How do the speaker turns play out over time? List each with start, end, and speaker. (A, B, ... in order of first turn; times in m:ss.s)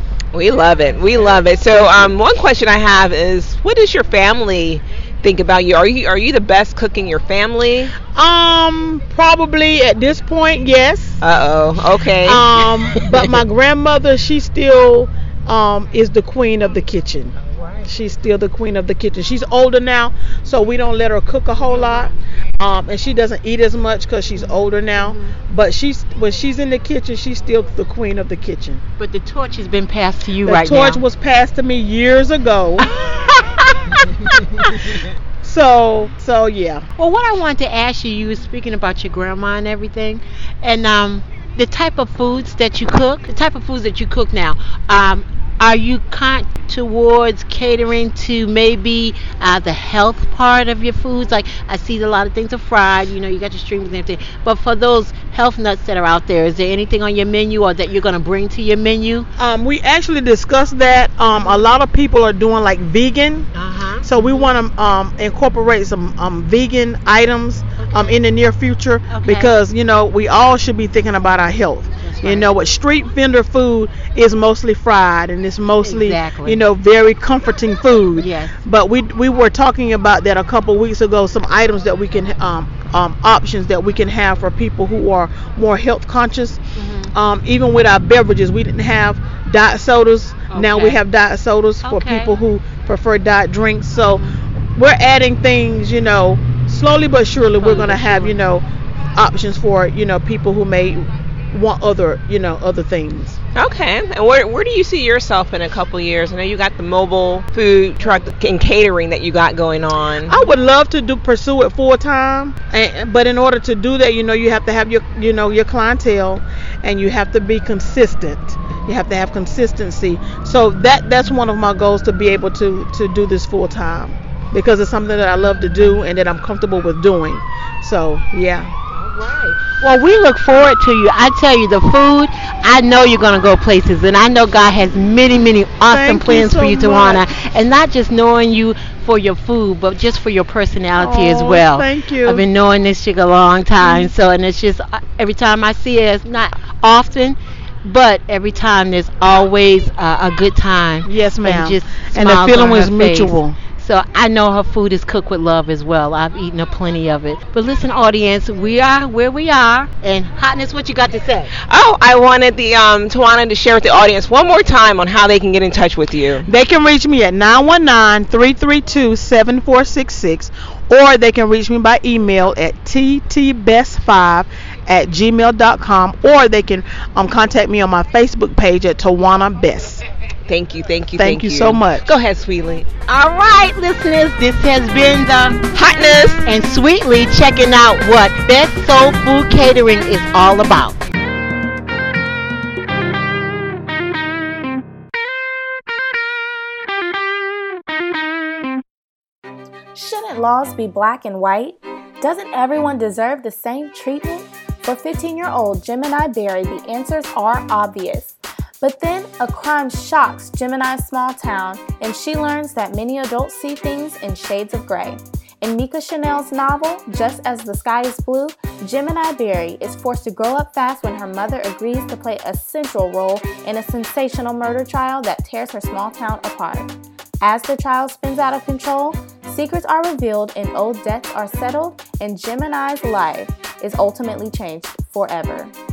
0:00.3-0:08.0 A
0:08.1-0:11.2 B
0:11.2-0:13.2 A
0:12.2-0:28.8 B
0:24.4-0:25.3 C
0:29.0-0:31.0 C
0:30.4-0:32.9 B
0:32.8-0:33.7 C
0:35.4-0:36.9 B
0:37.0-0:59.3 C
0:59.4-1:03.5 B
1:03.5-1:04.5 C
1:04.0-1:26.6 B
1:07.8-1:08.2 C
1:09.1-1:09.5 C
1:12.0-1:12.5 C
1:15.8-1:16.6 C
1:18.2-1:18.6 C
1:26.8-1:27.1 C
1:27.1-1:34.2 B
1:30.5-1:31.0 C
1:31.8-1:32.4 C
1:34.1-1:34.4 C
1:34.8-1:38.6 B
1:37.6-1:38.4 C
1:39.2-1:43.4 B
1:43.5-1:50.4 A
1:50.3-2:08.7 B
2:08.9-2:41.5 C
2:15.9-2:17.2 B
2:21.0-2:22.4 B
2:23.8-2:24.1 B
2:31.0-2:33.6 B
2:41.7-2:46.4 A
2:46.4-3:00.0 B
3:00.5-3:02.9 A
3:01.2-3:02.1 B
3:03.1-3:05.6 C
3:05.7-3:06.4 A
3:06.4-3:11.0 C
3:19.9-3:55.7 D